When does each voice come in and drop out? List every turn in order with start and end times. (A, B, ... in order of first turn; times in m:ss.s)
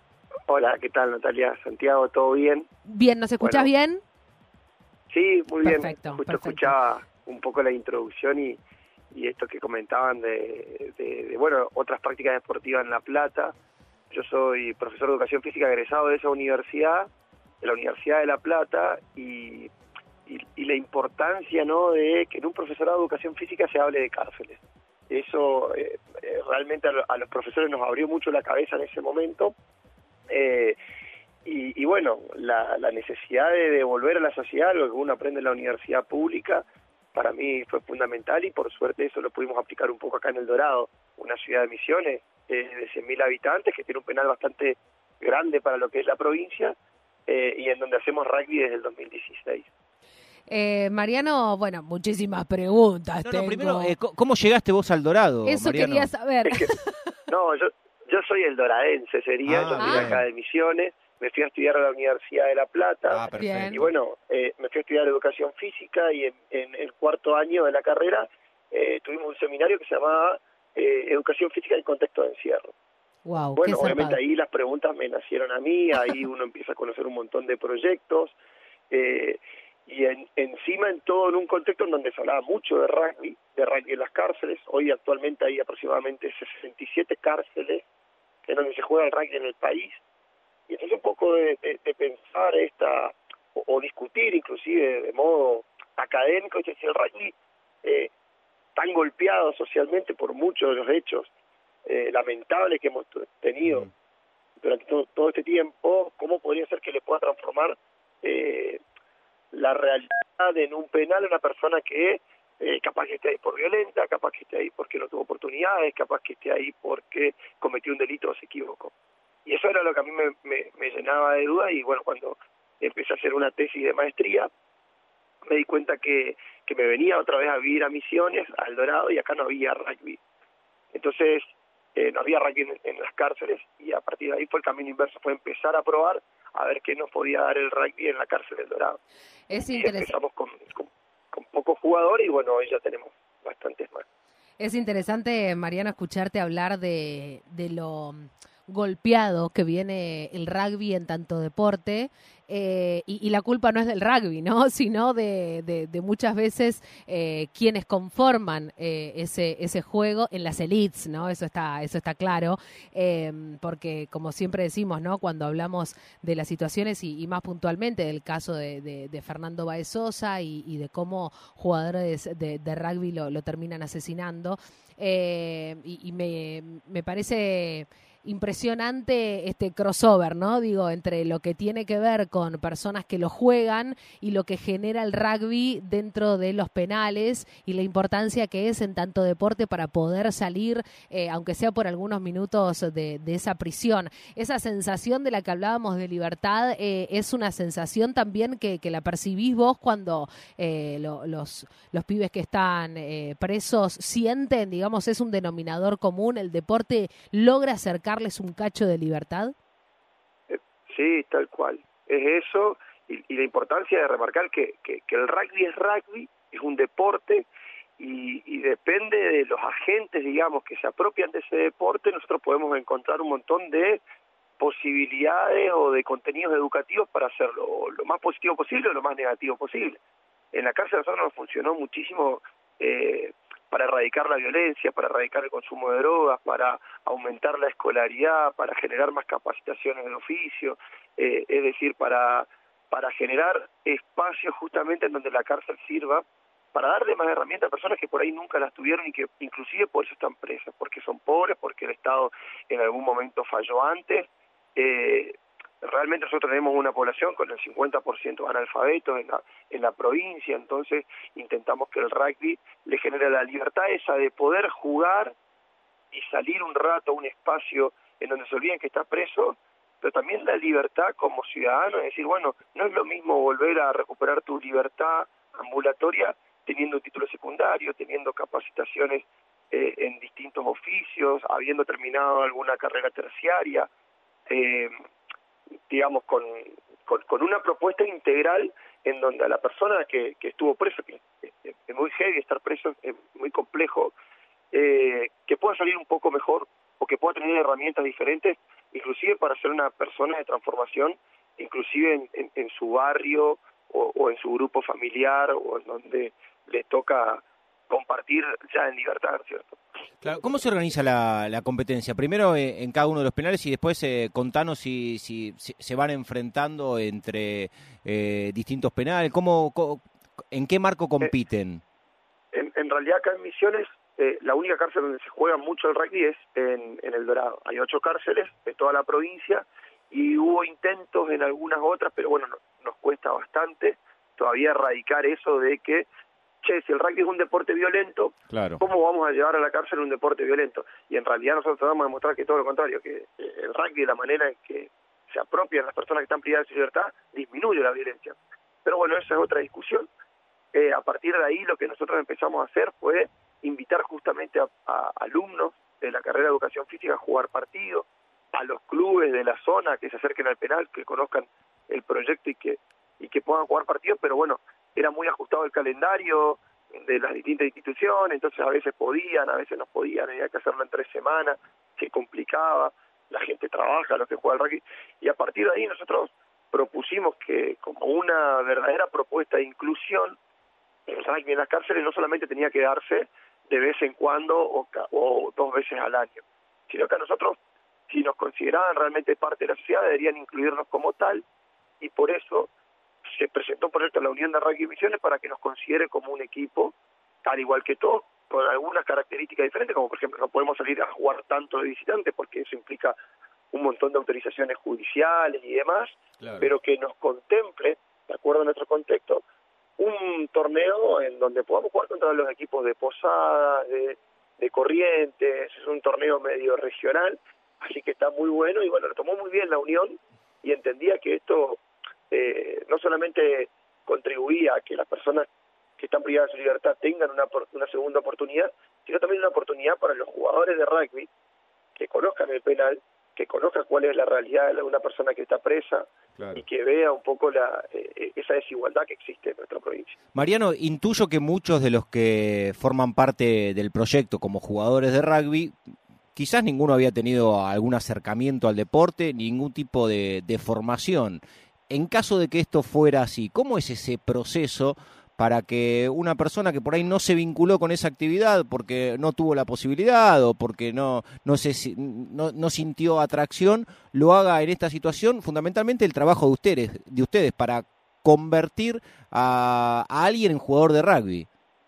0:00.5-0:02.7 A
0:02.8-0:04.0 B
0:03.4-0:03.7 A
0:05.1-0:08.6 A
0:05.6-0:06.7 B
0:09.1-0:13.5 A
0:14.1-0:17.1 A
0:17.6-0:19.7 A
0:20.3-0:29.5 A
0:30.3-0:30.8 A
0:31.4-0:46.8 A
0:47.3-0:49.7 A
0:50.5-0:53.9 B
0:53.2-0:56.1 C
0:55.4-0:57.0 B
0:57.3-1:12.7 A
0:59.4-1:00.2 C
0:59.8-1:00.2 B
1:03.1-1:03.9 C
1:03.3-1:03.8 B
1:13.2-1:14.2 B
1:13.6-1:18.4 A
1:18.9-1:27.8 A
1:28.4-1:30.0 A
1:30.7-1:38.1 A
1:38.8-1:41.3 A
1:41.8-1:43.9 A
1:44.6-1:48.8 A
1:49.5-1:58.9 A
1:59.4-2:04.5 A
2:05.4-2:10.2 A
2:10.9-2:11.4 A
2:11.9-2:19.0 A
2:19.5-2:20.1 B
2:19.5-2:24.0 A
2:24.6-3:29.5 B
3:30.5-3:37.5 A
3:38.0-3:44.0 A
3:44.6-3:50.0 A
3:50.5-4:25.3 A
4:26.1-4:43.9 A
4:44.5-4:44.9 A
4:45.9-4:54.1 A
4:54.7-5:09.8 A
5:10.2-5:21.8 C
5:22.5-5:36.1 A
5:36.6-5:50.1 A
5:38.5-5:38.8 C
5:50.7-6:20.4 A
6:21.1-6:27.6 A
6:28.1-6:31.4 A
6:32.0-6:32.7 A
6:33.3-6:43.2 A
6:43.7-6:49.4 A
6:46.4-6:46.7 C
6:50.0-7:05.4 A
7:06.0-7:11.3 A
7:12.0-7:20.1 A
7:20.3-7:25.8 C
7:26.3-7:51.5 C